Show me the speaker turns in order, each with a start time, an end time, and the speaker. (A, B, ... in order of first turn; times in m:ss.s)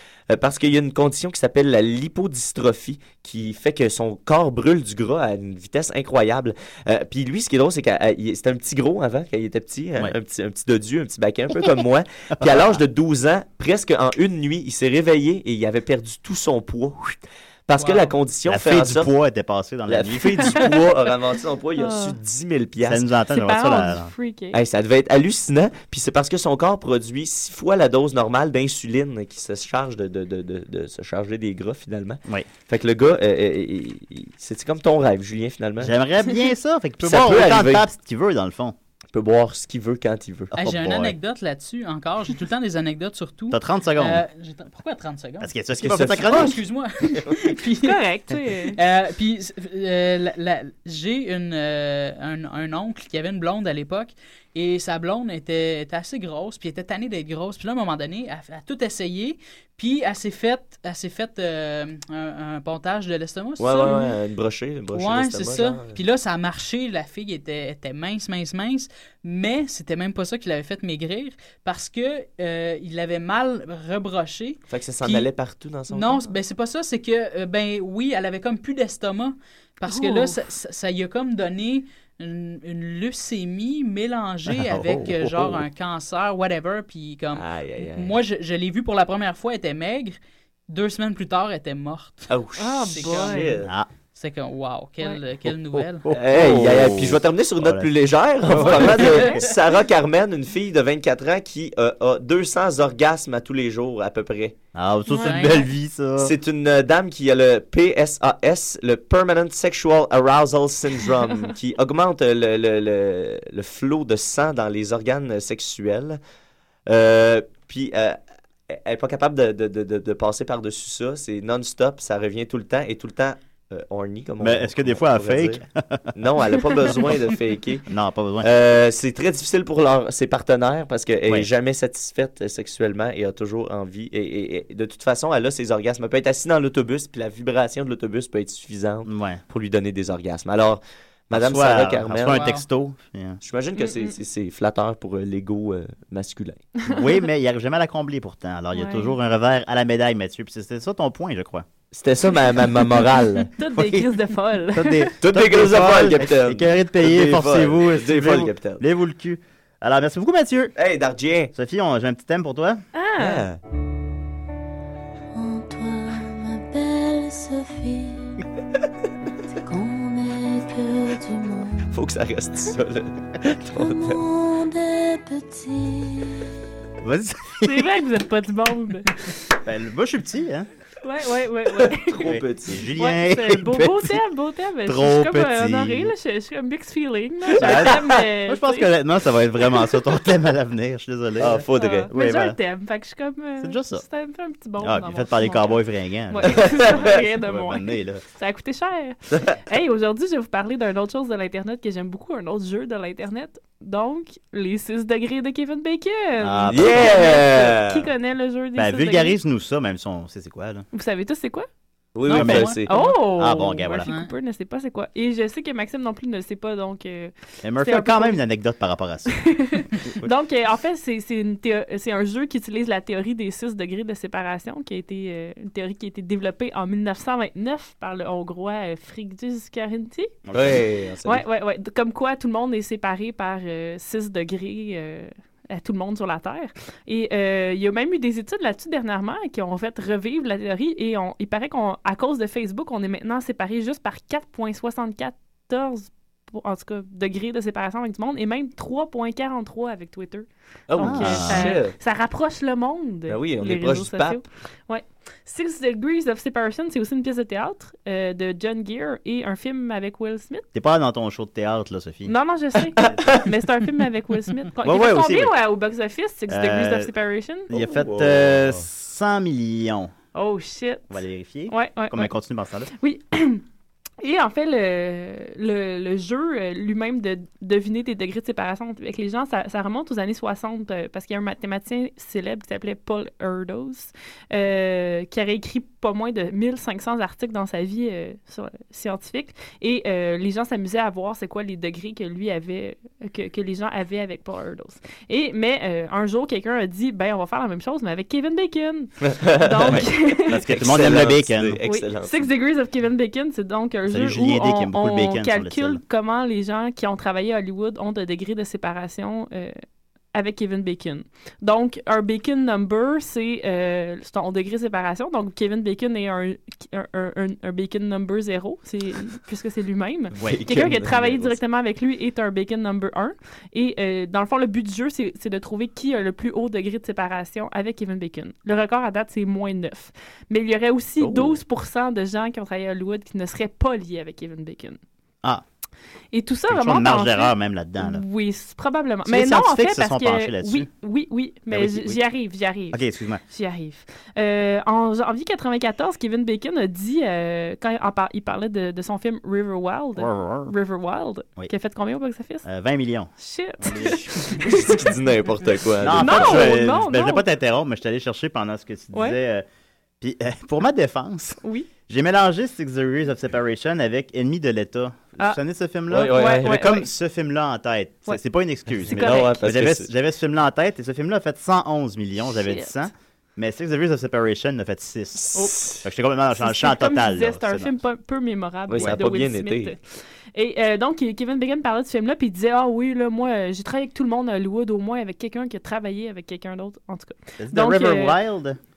0:00.3-0:19.1 A
0:12.4-0:12.8 B
0:17.8-0:18.1 C
0:18.4-0:20.6 B
0:19.9-0:23.0 A
0:21.8-0:22.2 D
0:22.8-0:24.1 B
0:23.3-0:24.6 D
0:24.5-0:35.9 A
0:35.8-0:38.8 B
0:37.0-0:37.8 A
0:39.1-0:40.5 A
0:40.5-0:41.1 B
0:40.6-0:45.5 C
0:43.5-0:44.2 B
0:45.4-0:46.6 B
0:45.8-0:46.5 A
0:46.2-0:48.0 C
0:47.8-0:48.8 D
0:48.7-1:04.1 C
1:03.6-1:06.0 A
1:04.9-1:15.3 C
1:14.7-1:16.3 A
1:15.9-1:30.2 C
1:19.9-1:20.3 D
1:24.5-1:25.5 B
1:27.3-1:28.2 A
1:30.7-1:32.3 C
1:32.3-1:33.7 A
1:32.6-1:33.6 D
1:32.9-1:33.6 C
1:34.1-1:36.0 C
1:36.1-1:37.9 B
1:36.1-1:44.6 A
1:38.4-1:39.4 B
1:38.8-1:39.3 C
1:44.7-1:46.3 B
1:45.1-1:45.4 D
1:45.2-1:45.6 C
1:46.2-1:56.2 A
1:56.9-1:58.2 A
1:58.7-2:05.6 A
2:04.4-2:06.1 B
2:06.2-2:07.8 A
2:07.9-2:08.5 B
2:08.4-2:22.4 A
2:19.0-2:19.4 B
2:21.3-2:23.4 B
2:22.3-2:22.6 C
2:23.4-2:26.6 A
2:23.8-2:24.2 D
2:26.8-2:27.2 D
2:26.9-2:31.7 B
2:28.7-2:29.1 D
2:31.9-2:33.5 A
2:33.5-2:35.1 D
2:33.7-2:40.7 B
2:35.2-2:38.8 A
2:40.8-2:41.5 A
2:41.5-2:42.8 B
2:42.9-2:43.5 D
2:43.2-2:43.6 A
2:45.3-2:48.4 E
2:49.6-2:52.0 E
2:51.9-2:54.1 A
2:53.7-2:56.4 E
2:57.0-2:57.9 B
2:57.6-2:59.2 D
2:59.6-3:00.7 B
3:01.0-3:02.3 D
3:01.8-3:02.8 A
3:02.2-3:04.1 B
3:03.0-3:08.9 D
3:05.0-3:05.3 A
3:05.3-3:06.1 B
3:07.6-3:08.0 A
3:07.6-3:12.6 B
3:11.4-3:12.1 A
3:11.7-3:29.4 D
3:13.6-3:14.0 B
3:14.8-3:18.2 B
3:26.4-3:27.2 B
3:26.6-3:28.1 A
3:28.8-3:30.8 B
3:30.9-3:31.7 D
3:32.1-3:32.9 A
3:32.3-3:33.2 C
3:32.3-3:32.8 B
3:32.9-3:38.4 D
3:33.4-3:34.1 B
3:34.1-3:34.3 C
3:37.6-3:39.4 B
3:39.4-3:50.4 D
3:50.4-3:50.9 B
3:50.5-3:51.4 A
3:51.2-4:20.6 D
4:10.9-4:11.9 A
4:11.0-4:11.7 B
4:13.3-4:14.4 A
4:20.7-4:22.3 B
4:22.2-4:27.7 D
4:23.0-4:23.4 A
4:24.8-4:25.5 B
4:26.5-4:27.1 B
4:27.7-4:30.1 B
4:27.7-4:28.8 A
4:30.3-4:31.1 D
4:31.1-4:32.9 B
4:31.7-4:32.3 D
4:33.0-4:33.6 D
4:34.2-5:00.6 D
4:59.2-5:00.1 A
4:59.9-5:01.8 B
5:00.6-5:02.5 A
5:01.9-5:09.8 D
5:04.0-5:06.0 B
5:10.3-5:35.0 D
5:20.4-5:21.5 A
5:31.2-5:31.6 A
5:36.3-5:52.6 D
5:36.7-5:38.2 B
5:39.2-5:40.9 B
5:41.7-5:42.2 B
5:42.9-5:43.4 B
5:50.2-5:50.7 B
5:52.6-5:54.3 B
5:53.4-5:55.1 D
5:54.1-5:56.7 A
5:56.0-5:59.6 B
5:56.2-5:57.4 D
5:59.1-5:59.4 D
6:00.2-6:17.9 B
6:01.6-6:01.9 D
6:06.1-6:07.0 A
6:06.3-6:07.1 D
6:09.0-6:10.1 A
6:09.1-6:09.6 D
6:12.4-6:12.9 D
6:15.4-6:16.0 A
6:16.6-6:28.4 D
6:18.9-6:19.9 A
6:27.6-6:28.8 B